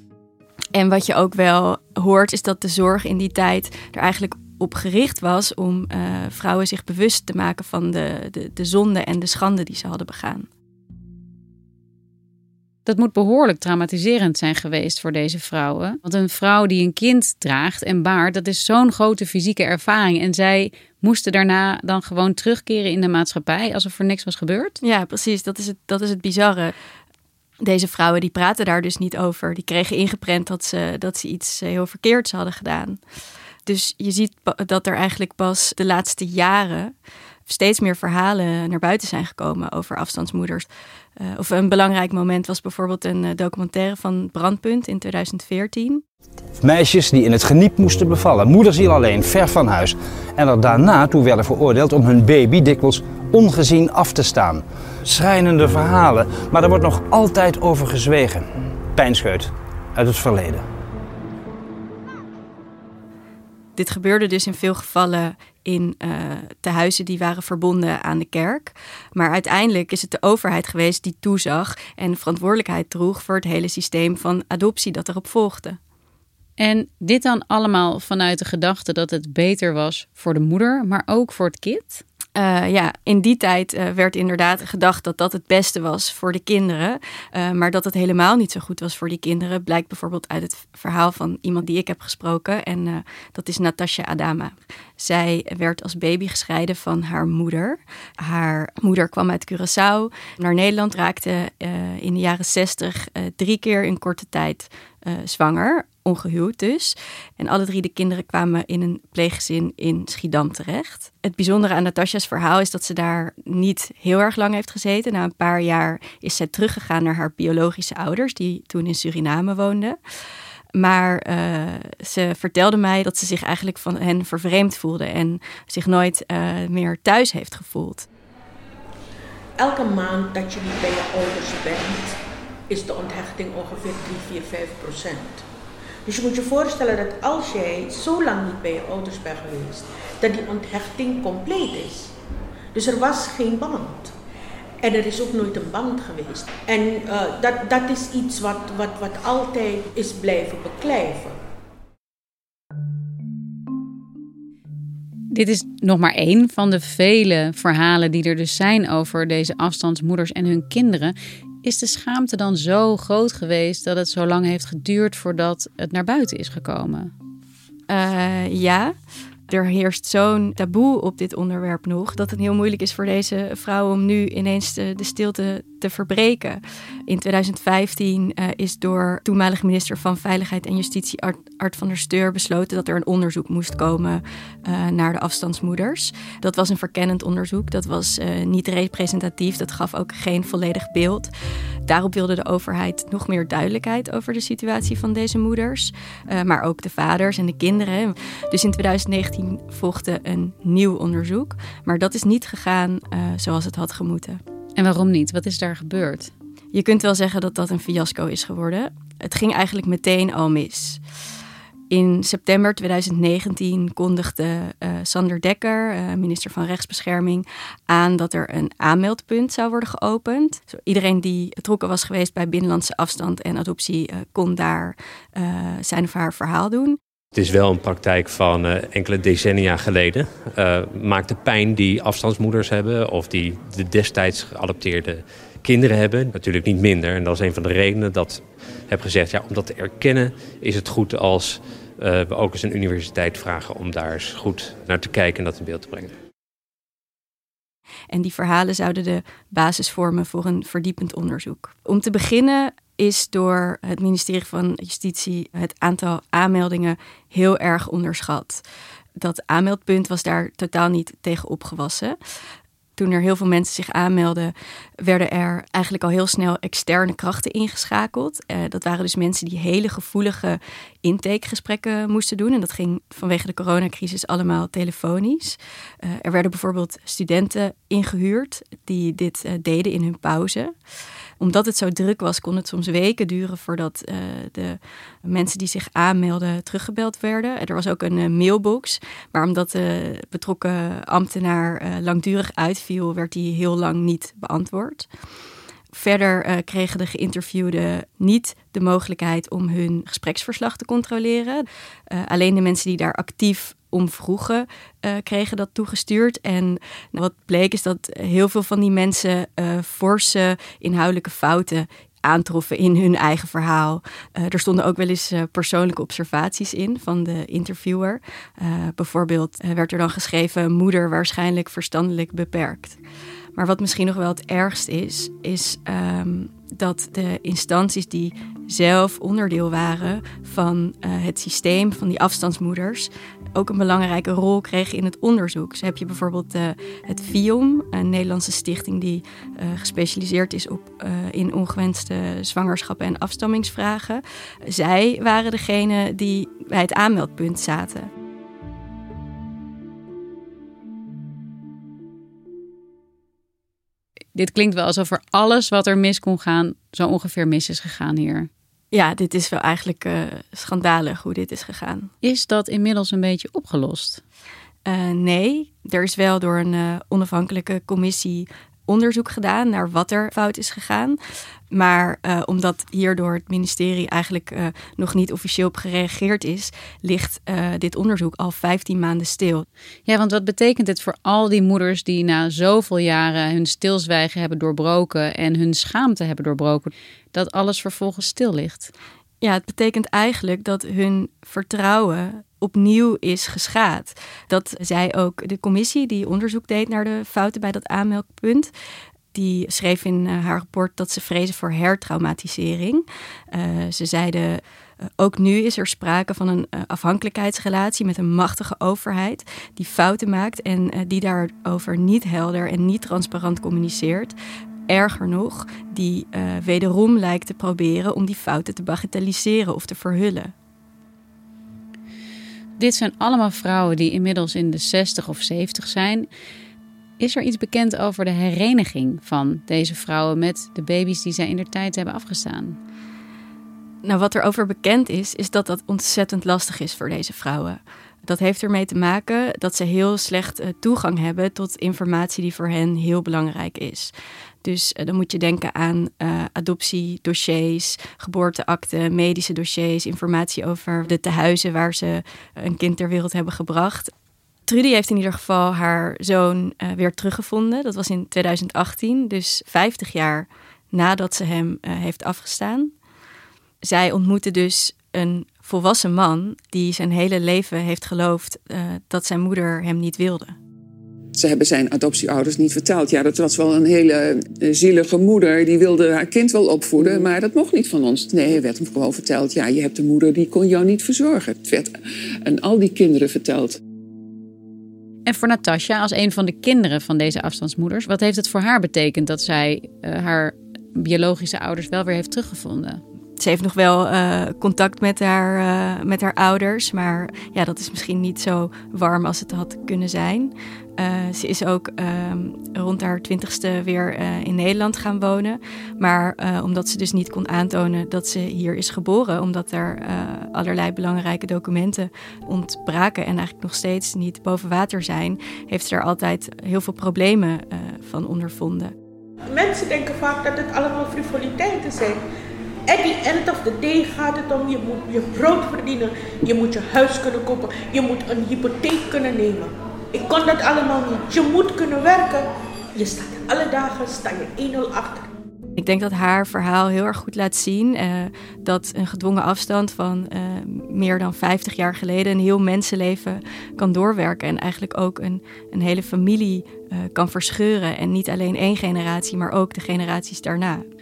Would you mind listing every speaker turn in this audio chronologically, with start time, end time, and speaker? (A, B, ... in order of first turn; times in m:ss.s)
0:00.7-0:10.5 A
0:12.8-0:24.8 B
0:24.8-0:26.7 A
0:27.6-0:33.0 A
0:33.7-0:36.9 A
0:37.5-0:40.7 A
0:41.2-0:46.0 A
0:46.6-1:00.7 C
1:03.8-1:15.8 A
1:16.6-1:22.0 B
1:22.4-2:00.0 A
2:00.8-2:08.1 A
2:09.6-2:15.4 D
2:16.1-2:22.1 D
2:22.7-2:24.1 D
2:24.8-2:31.4 D
2:35.3-2:47.1 B
2:47.9-2:48.9 A
2:49.5-3:11.3 A
3:11.9-3:24.4 A
3:24.8-3:26.3 B
3:26.7-3:31.0 A
3:31.9-3:47.0 A
3:47.4-4:06.1 E
4:08.1-4:18.6 A
4:19.2-4:22.2 A
4:23.0-4:40.7 A
4:41.4-4:55.1 A
4:55.9-5:23.0 A
5:23.6-5:48.1 A
5:54.4-5:58.5 B
5:58.9-6:02.1 A
6:02.2-6:04.2 B
6:04.9-6:11.2 A
6:11.7-6:19.6 A
6:20.1-6:28.9 B
6:29.4-6:38.7 A
6:39.3-6:44.6 A
6:45.2-6:54.3 A
6:54.9-7:00.5 A
7:02.8-7:06.3 B
7:07.2-7:12.8 B
7:14.0-7:24.1 A
7:24.6-7:34.1 A
7:34.7-7:42.9 A
7:43.8-7:50.6 A
7:51.4-8:01.9 F
8:02.5-8:03.8 F
8:05.3-8:13.0 B
8:13.4-8:38.9 A
8:39.5-8:42.2 D
8:42.9-8:55.3 D
8:55.8-9:10.8 A